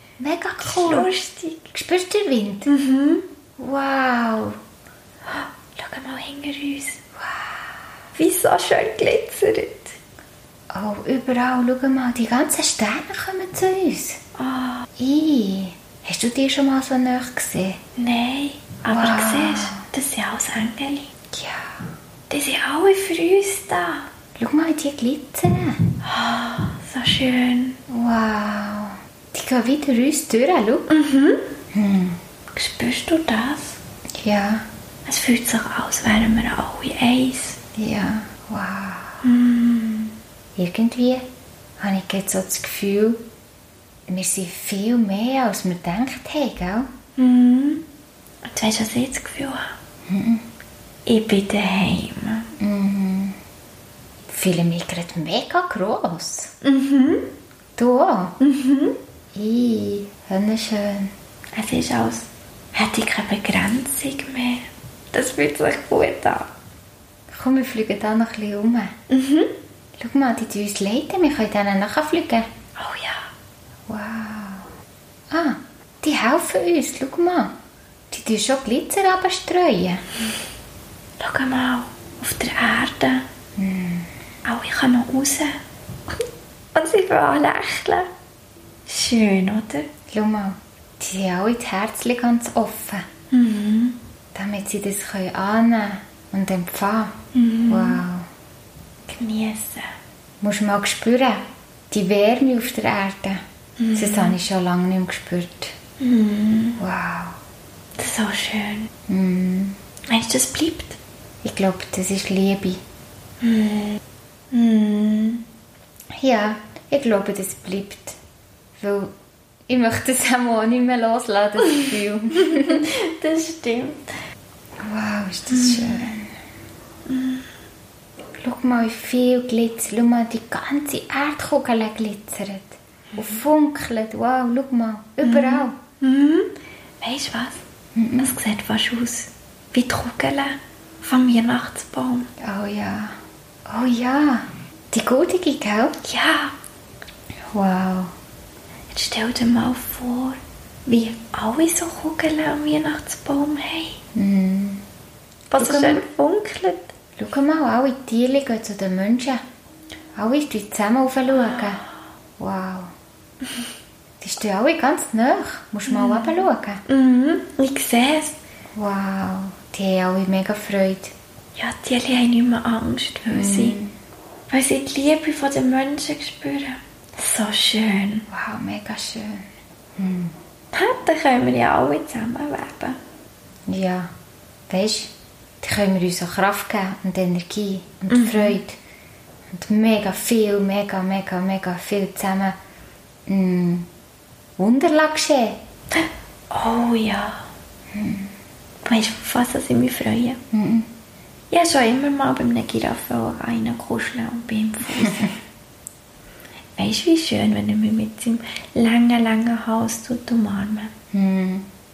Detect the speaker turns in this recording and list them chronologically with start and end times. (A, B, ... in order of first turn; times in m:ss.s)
0:00.2-0:01.1 A
0:00.6-0:01.7 B
0:01.7-0:02.7 A
0:02.7-0:03.2 B
0:03.6-0:04.6 A
0:05.3-0:07.0 B
0:07.2-0:07.7 A
0:08.2-0:10.0 B
0:10.7-0:14.2 A
0:14.4-0:14.9 B
0:15.0-0:17.8 A
0:18.0-0:21.1 B
0:18.9-0:19.8 A
0:21.3-0:21.9 A
0:22.3-0:24.1 B
0:24.4-0:25.8 A
0:26.0-0:27.8 B
0:27.9-0:30.9 A
0:30.9-0:31.5 B
0:31.7-0:32.2 A
0:32.5-0:33.8 B
0:34.2-0:34.6 A
0:35.1-0:37.6 B
0:37.8-0:39.2 A
0:39.2-0:40.1 B
0:40.6-0:41.2 A
0:41.8-0:43.2 A
0:44.1-0:46.9 A
0:47.2-0:47.8 B
0:48.5-0:49.8 B
0:50.1-0:50.4 A
0:51.1-0:52.5 B
0:52.6-0:53.4 A
0:54.3-0:56.5 A
0:56.6-0:57.3 B
0:57.8-0:58.4 A
0:58.4-0:59.0 B
0:59.3-1:01.1 A
1:01.6-1:06.5 B
1:07.3-1:08.9 A
1:09.1-1:09.5 B
1:10.0-1:12.5 A
1:12.8-1:13.3 B
1:13.9-1:14.7 A
1:15.3-1:17.5 A
1:18.1-1:20.0 A
1:21.2-1:23.2 B
1:23.6-1:24.1 A
1:24.4-1:25.6 B
1:26.8-1:28.1 B
1:28.9-1:29.9 B
1:30.1-1:33.0 A
1:33.3-1:34.0 B
1:34.4-1:38.3 A
1:37.3-1:38.0 B
1:39.1-1:39.9 B
1:40.4-1:43.4 A
1:43.8-1:44.4 B
1:43.9-1:45.7 A
1:46.0-1:46.8 B
1:46.8-1:47.4 A
1:48.0-1:48.9 B
1:49.1-1:49.8 A
1:50.1-1:51.0 B
1:51.4-1:52.8 A
1:53.4-1:54.0 B
1:54.5-1:55.4 B
1:56.2-1:58.2 A
1:58.8-1:59.1 A
1:59.7-2:02.9 A
2:02.4-2:04.1 B
2:04.8-2:06.3 A
2:05.5-2:06.1 B
2:07.1-2:07.4 B
2:08.4-2:15.8 A
2:15.2-2:17.6 B
2:18.0-2:18.3 A
2:18.2-2:22.3 B
2:22.4-2:23.2 A
2:23.7-2:26.0 A
2:26.0-2:26.5 B
2:27.5-2:28.1 A
2:28.9-2:34.0 B
2:34.1-2:34.8 A
2:35.5-2:36.9 B
2:35.6-2:36.0 A
2:37.2-2:39.4 A
2:40.2-2:41.8 A
2:41.4-2:41.8 B
2:42.4-2:42.9 A
2:44.2-2:46.8 A
2:45.9-2:48.4 B
2:48.7-2:51.1 A
2:51.6-2:53.8 B
2:53.3-2:53.9 A
2:54.5-2:58.3 B
2:58.3-2:59.5 A
3:00.0-3:00.4 A
3:00.7-3:03.0 B
3:03.7-3:04.1 A
3:04.7-3:08.8 A
3:08.1-3:08.6 B
3:09.5-3:12.6 A
3:13.3-3:13.9 A
3:14.6-3:15.6 A
3:15.9-3:17.4 B
3:17.9-3:18.3 A
3:18.8-3:20.4 B
3:20.5-3:20.9 A
3:21.5-3:25.4 B
3:25.0-3:25.2 A
3:26.8-3:30.9 B
3:31.1-3:31.7 A